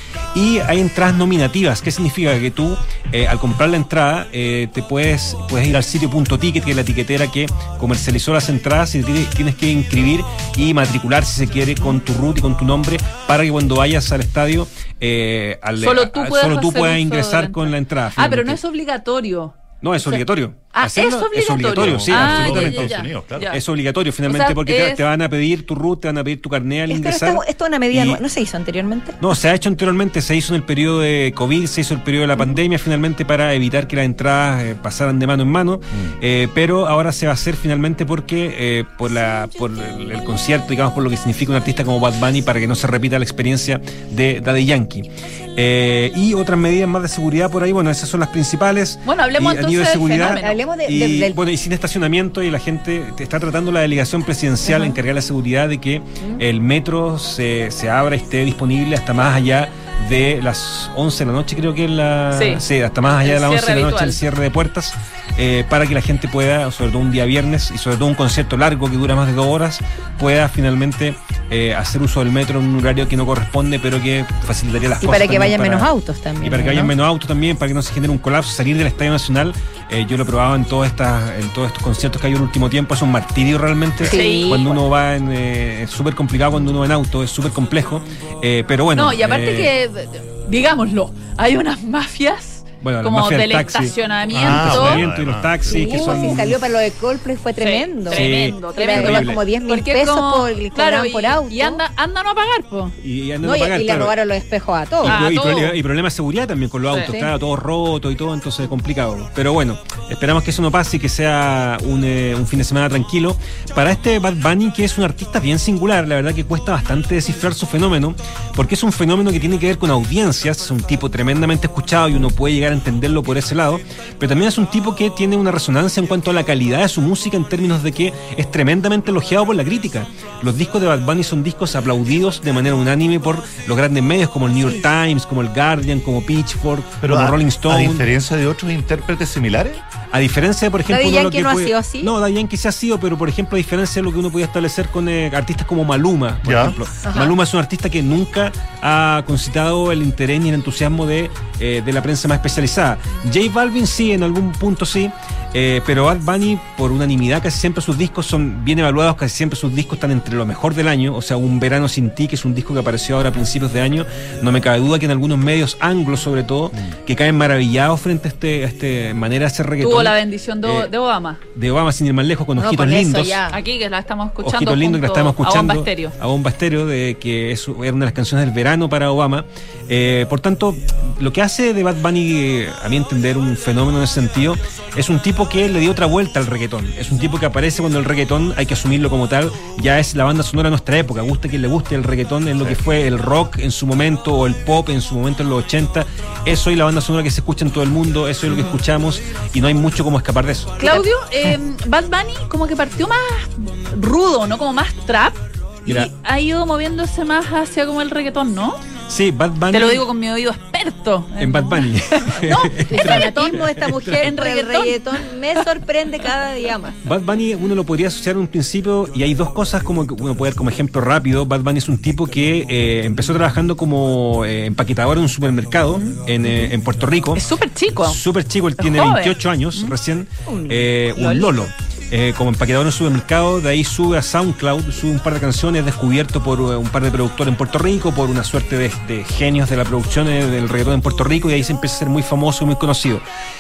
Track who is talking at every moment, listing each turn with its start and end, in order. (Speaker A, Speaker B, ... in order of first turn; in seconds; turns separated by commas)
Speaker A: 0.3-18.6, Speaker B: 15.8-23.6, Speaker A: 19.8-28.2, Speaker C: 22.1-23.5, Speaker B: 24.3-25.0, Speaker D: 26.9-29.2, Speaker A: 29.2-89.7, Speaker B: 49.0-50.6, Speaker D: 50.3-51.4, Speaker B: 54.6-54.9, Speaker B: 62.3-62.6, Speaker B: 63.2-64.2, Speaker D: 75.0-76.9, Speaker D: 84.0-84.6, Speaker B: 84.0-84.8, Speaker B: 88.9-95.0, Speaker A: 92.8-96.6, Speaker C: 94.4-95.8, Speaker D: 95.7-98.2, Speaker B: 97.6-103.0, Speaker A: 98.1-99.4, Speaker D: 98.8-101.8, Speaker A: 103.0-104.1, Speaker D: 103.4-105.2, Speaker A: 105.0-138.1, Speaker B: 105.0-105.8, Speaker B: 106.9-107.2, Speaker C: 137.0-139.8, Speaker A: 140.1-170.9, Speaker D: 140.9-142.1, Speaker C: 146.5-146.8, Speaker D: 147.0-147.3, Speaker B: 169.8-171.4, Speaker A: 171.6-173.4, Speaker D: 172.6-173.5, Speaker B: 173.5-176.1, Speaker A: 174.4-201.0, Speaker B: 198.5-198.8, Speaker B: 200.8-208.8, Speaker A: 209.1-210.1, Speaker B: 209.7-215.0, Speaker A: 211.4-213.9, Speaker D: 212.9-217.0, Speaker A: 217.1-227.4, Speaker B: 225.9-226.7, Speaker B: 227.3-228.2, Speaker A: 228.0-243.2, Speaker B: 228.8-229.9, Speaker B: 230.7-231.5